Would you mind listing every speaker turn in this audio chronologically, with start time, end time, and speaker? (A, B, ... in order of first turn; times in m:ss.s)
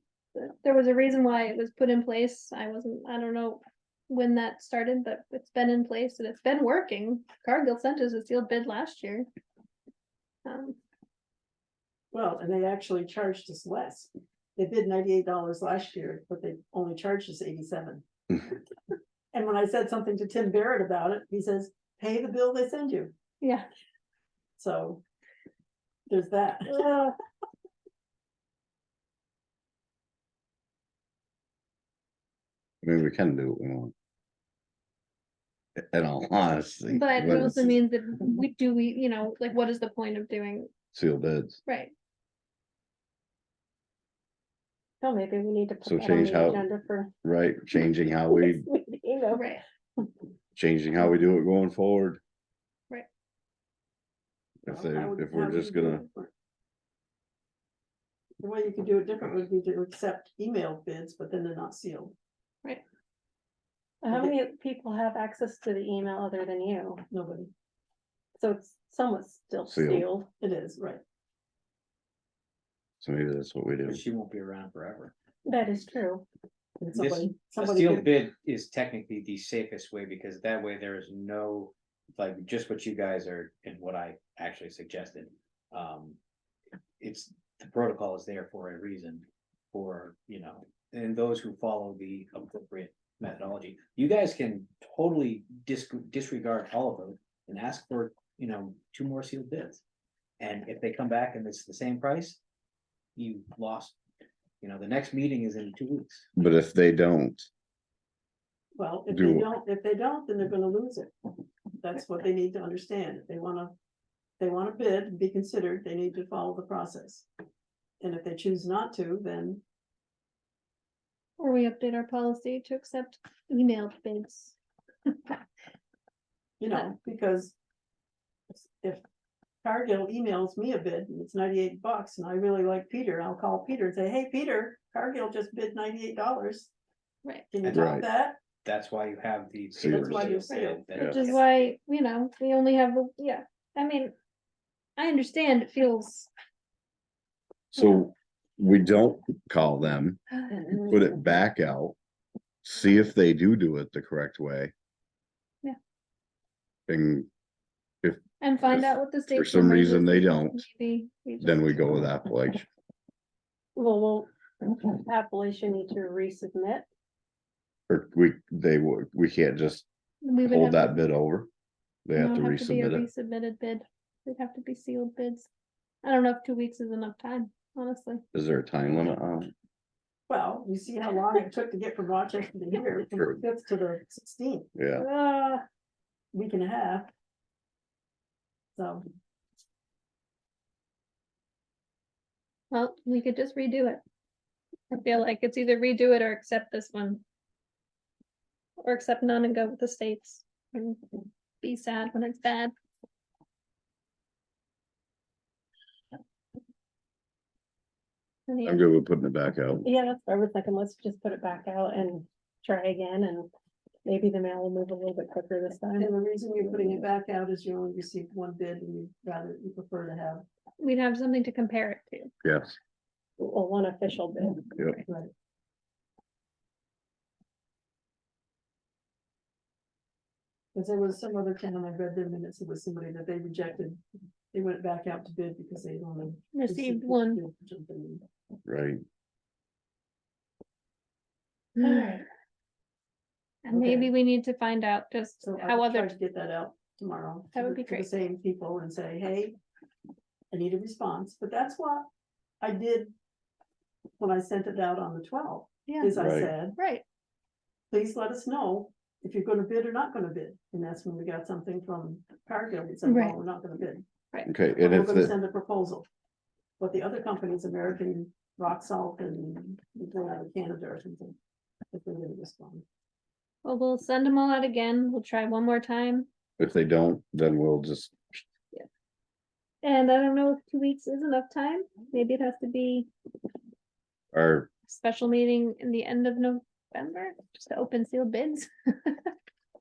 0:00.3-0:09.3 A
0:10.4-0:10.8 A
0:12.1-0:18.5 B
0:19.3-0:23.1 B
0:23.4-0:23.7 A
0:24.6-0:25.0 B
0:26.1-0:26.8 B
0:26.7-0:27.1 A
0:32.8-0:33.9 C
0:35.8-0:37.8 C
0:36.9-0:40.7 A
0:40.9-0:41.6 C
0:41.7-0:41.9 A
0:45.0-0:47.1 D
0:45.8-0:46.6 C
0:47.2-0:48.6 C
0:48.3-0:49.5 D
0:49.4-0:49.6 A
0:50.6-0:52.2 C
0:54.6-0:56.0 C
0:54.7-0:56.3 B
0:58.4-1:02.1 B
1:04.0-1:07.0 D
1:07.1-1:07.5 B
1:08.4-1:10.3 D
1:09.7-1:10.1 C
1:10.4-1:11.0 B
1:13.0-1:14.0 C
1:13.8-1:15.1 E
1:15.5-1:16.2 D
1:16.8-1:18.1 B
1:16.9-1:26.2 E
1:27.0-1:39.8 E
1:40.4-1:42.4 E
1:43.2-1:44.0 E
1:44.6-1:46.3 E
1:46.4-1:47.5 C
1:48.8-1:51.1 B
1:49.1-1:49.4 C
1:51.8-1:53.7 B
1:54.4-1:57.3 B
1:58.0-1:59.6 B
2:01.4-2:04.6 A
2:06.6-2:07.6 B
2:08.5-2:09.0 B
2:09.6-2:16.7 B
2:17.5-2:18.4 B
2:17.6-2:18.0 E
2:17.7-2:18.0 C
2:18.6-2:21.4 E
2:19.7-2:20.3 C
2:19.8-2:21.3 B
2:20.9-2:24.1 A
2:25.0-2:26.3 A
2:27.7-2:30.2 C
2:30.7-2:32.0 C
2:32.6-2:34.7 C
2:36.9-2:37.3 C
2:38.0-2:40.6 C
2:38.4-2:41.8 A
2:41.4-2:42.7 C
2:43.8-2:46.8 D
2:47.9-2:49.8 C
2:50.2-2:51.0 A
2:50.4-2:51.5 C
2:52.0-2:53.1 C
2:52.1-2:55.5 A
2:56.0-2:58.2 A
2:58.3-2:59.5 C
3:00.3-3:05.2 B
3:04.8-3:05.0 C
3:06.3-3:07.1 B
3:08.7-3:09.0 B
3:12.7-3:14.0 A
3:14.9-3:17.2 A
3:18.8-3:21.0 A
3:21.6-3:22.7 A
3:28.5-3:28.9 A
3:28.6-3:29.8 C
3:29.8-3:33.5 D
3:34.0-3:36.1 D
3:36.0-3:40.4 B
3:36.6-3:37.0 D
3:40.8-3:42.3 A
3:42.4-3:42.8 C
3:43.4-3:45.0 D
3:50.7-3:54.0 B
3:54.5-3:58.2 B
3:56.5-3:57.4 A
3:58.7-3:59.0 C
4:01.8-4:02.2 A
4:03.6-4:06.1 A
4:03.7-4:04.1 B
4:05.4-4:09.6 B
4:07.5-4:08.1 A
4:10.5-4:12.1 B
4:12.6-4:13.1 B
4:14.2-4:16.8 B
4:15.9-4:16.1 A
4:16.2-4:16.5 C
4:16.8-4:17.0 A
4:17.9-4:24.0 B
4:23.0-4:23.4 A
4:24.4-4:25.3 C
4:24.8-4:26.1 B
4:26.8-4:31.4 B
4:31.9-4:32.8 B
4:33.6-4:36.3 A
4:36.6-4:38.4 C
4:39.8-4:43.1 A
4:44.3-4:44.7 C
4:44.9-4:49.3 A